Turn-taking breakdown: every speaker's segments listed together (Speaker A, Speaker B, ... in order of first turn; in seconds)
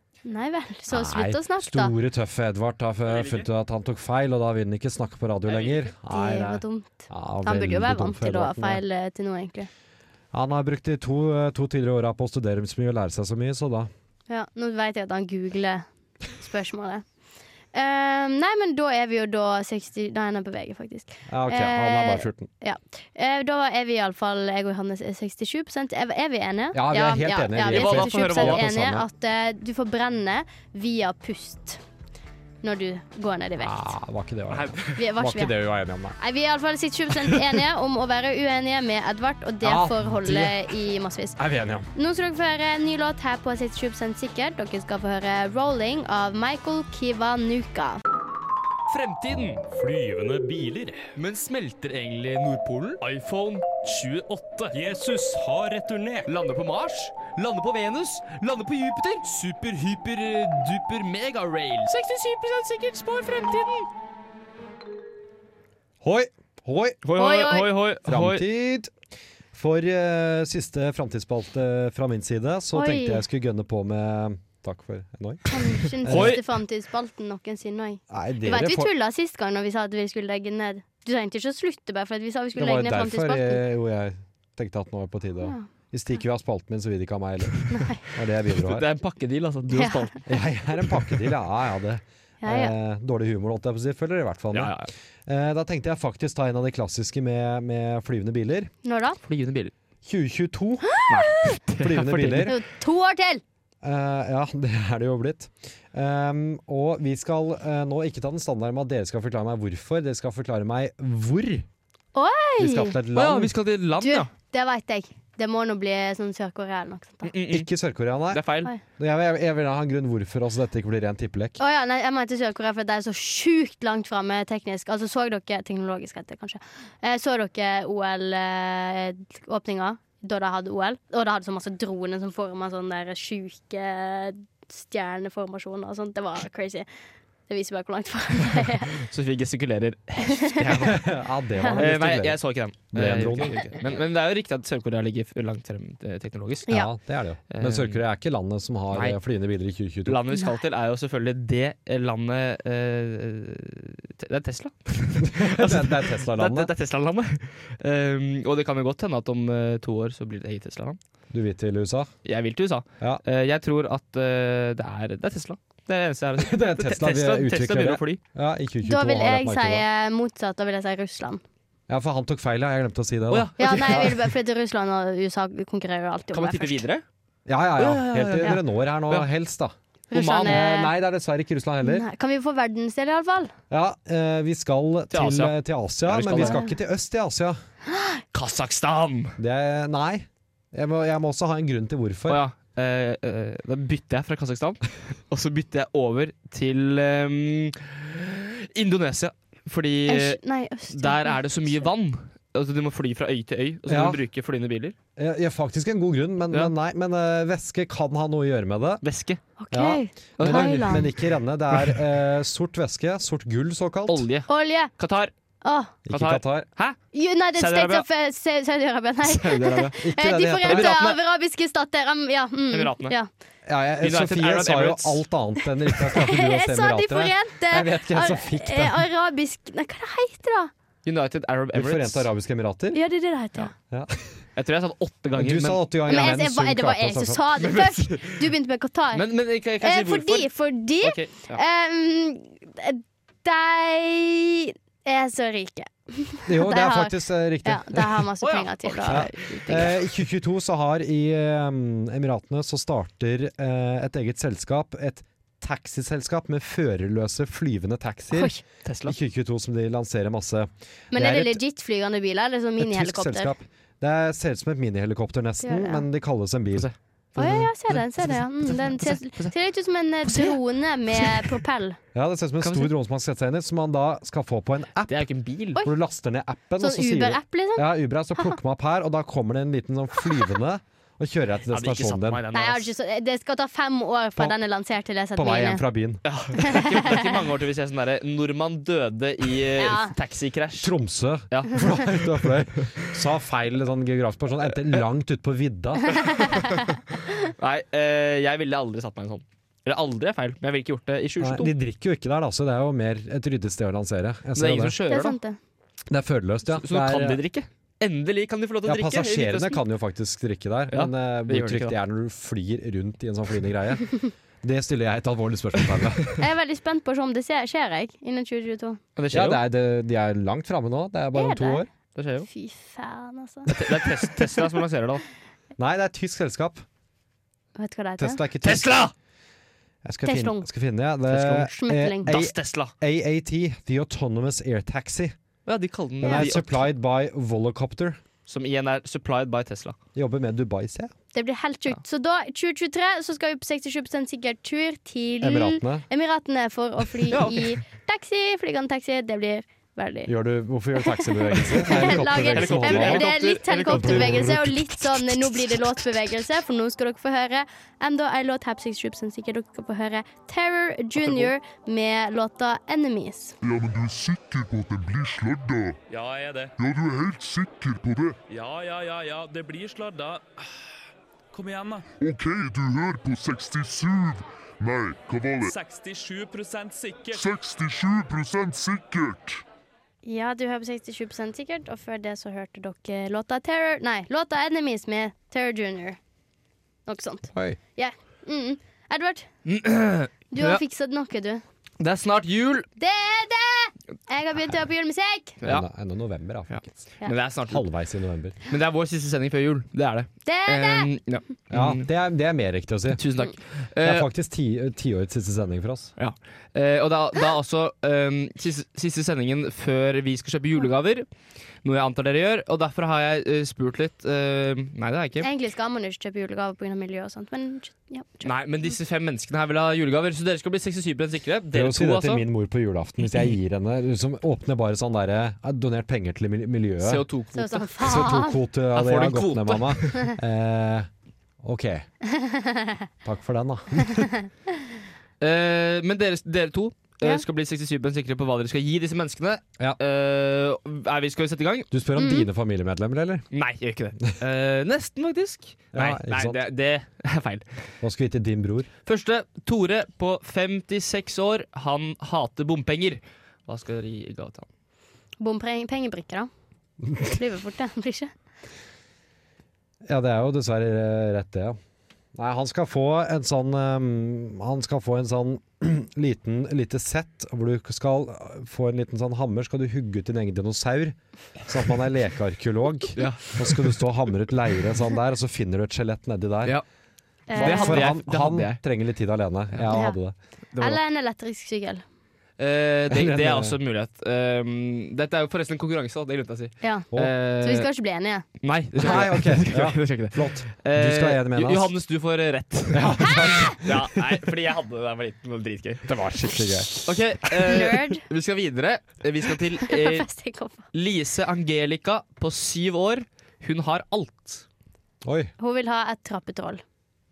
Speaker A: 0.2-1.9, 6.1-9.7, 14.3-17.0, 17.7-31.8, 32.6-33.9, 34.9-35.5, 36.2-41.4, 41.9-48.0, 67.2-67.7, 72.7-73.2, 75.5-83.6, 85.4-85.7, 87.7-88.0, 89.7-90.1, 92.4-92.7, 98.8-99.2, 100.9-101.6, 102.5-103.4, 112.1-113.0, 114.0-117.3, 121.6-136.9, 137.5-139.0, 140.2-140.9, 141.6-141.8, 150.3-150.6, 168.8-171.4, 173.6-176.8, 180.1-180.9, 181.8-183.5, 186.4-186.7, 187.9-188.2, 200.1-201.4, 209.6-211.1, 214.5-214.9, 215.6-215.9, 217.1-223.3, 226.1-230.7, 232.9-233.7, 236.1-239.2, 239.8-249.9, 258.3-258.6, 261.1-263.5, 265.6-266.0, 267.4-272.0, 276.8-278.6, 282.5-285.8, 286.6-287.3, 289.8-290.1, 296.2-296.9, 305.1-305.6, 316.4-319.0, 321.3-321.8, 322.5-323.7, 327.8-328.4, 330.2-330.7, 331.6-332.3, 341.3-350.3, 351.0-363.6, 380.2-386.2, 387.1-389.5, 390.5-391.6, 393.0-395.6, 400.4-401.1, 415.4-418.5, 427.5-428.6, 432.2-433.0, 434.1-434.4, 442.2-442.5, 455.4-456.5, 457.2-458.3, 477.5-478.0, 479.9-480.2, 480.8-482.0, 486.8-487.1, 487.6-488.4, 493.2-493.8, 497.6-498.2, 499.8-500.8, 505.6-506.8
Speaker B: 0.9-8.8, 10.3-13.9, 21.3-22.5, 26.7-29.1, 33.6-36.1, 39.6-40.6, 41.4-41.9, 66.0-67.0, 68.0-68.9, 69.5-76.4, 78.1-78.9, 82.5-88.8, 90.3-98.7, 100.0-100.9, 101.8-102.5, 103.8-111.7, 112.6-113.5, 117.5-121.6, 140.7-142.4, 142.9-143.6, 146.7-150.2, 155.2-156.7, 161.3-162.1, 166.4-169.8, 171.9-174.2, 177.4-179.7, 180.4-182.0, 183.7-187.6, 189.4-192.4, 203.9-204.2, 205.2-209.0, 209.7-214.2, 216.1-216.7, 220.0-220.9, 223.7-229.1, 231.7-233.0, 233.9-234.3, 235.3-237.5, 246.5-248.2, 249.1-258.5, 259.0-261.6, 262.8-266.9, 272.1-275.2, 275.8-282.4, 285.3-286.2, 290.8-296.5, 301.4-304.9, 306.1-307.4, 308.8-316.4, 319.3-321.9, 323.7-324.0, 325.8-326.8, 328.2-329.0, 330.0-335.3, 336.2-338.2, 340.1-341.1, 345.4-346.1, 350.2-353.3, 353.9-355.8, 387.5-387.8, 395.6-396.9, 397.7-398.6, 401.7-403.2, 404.0-406.1, 421.7-427.2, 428.0-431.1, 431.6-432.0, 433.2-434.3, 441.9-443.4, 445.9-446.6, 448.0-448.9, 460.1-461.8, 462.3-476.8, 477.5-480.3, 483.1-483.8, 489.0-491.9, 492.9-494.4, 496.0-497.5, 505.2-505.5
Speaker C: 3.0-3.5, 5.5-5.9, 27.6-28.6, 34.5-35.0, 48.9-49.6, 51.1-54.8, 56.2-63.9, 67.0-68.4, 76.0-76.4, 88.5-90.3, 90.8-91.2, 94.5-94.9, 99.2-99.7, 101.1-102.6, 113.1-114.3, 117.2-117.7, 118.3-118.7, 138.9-141.1, 141.7-146.8, 147.5-148.0, 148.9-149.2, 150.1-161.0, 162.2-168.2, 173.3-174.3, 176.3-177.0, 177.8-179.3, 180.1-180.7, 185.1-186.6, 188.3-189.3, 192.3-204.9, 209.0-209.4, 210.4-211.2, 214.1-215.3, 216.1-217.0, 217.5-218.0, 219.2-219.9, 220.6-221.2, 222.7-223.1, 224.0-225.2, 231.0-232.3, 234.6-236.3, 237.6-238.5, 239.1-240.5, 241.0-241.6, 248.4-250.0, 258.8-259.1, 266.7-269.5, 270.2-270.6, 271.1-271.6, 272.6-272.9, 275.1-275.8, 281.7-282.9, 286.2-290.9, 291.5-292.9, 296.4-296.8, 297.6-301.7, 304.5-305.4, 306.7-309.8, 310.9-312.0, 319.1-319.6, 322.1-322.5, 323.7-325.2, 328.6-329.1, 331.3-331.7, 332.2-332.9, 335.6-336.9, 338.5-340.0, 347.3-347.7, 351.8-354.7, 361.2-361.5, 389.6-390.8, 392.0-392.9, 395.6-395.9, 396.7-397.8, 398.6-402.0, 403.1-404.3, 406.2-411.2, 411.8-415.5, 418.4-422.5, 427.0-428.2, 428.9-430.3, 435.4-441.9, 443.5-447.6, 449.1-454.7, 473.2-474.0, 477.5-478.8, 482.6-487.9, 488.6-496.1, 497.0-500.3, 500.9-504.6
Speaker D: 49.7-51.1, 54.7-56.3, 366.1-366.7, 368.5-370.6, 371.5-372.1, 375.6-377.4
Speaker E: 363.6-366.0, 366.8-368.4, 372.2-375.7, 377.3-379.6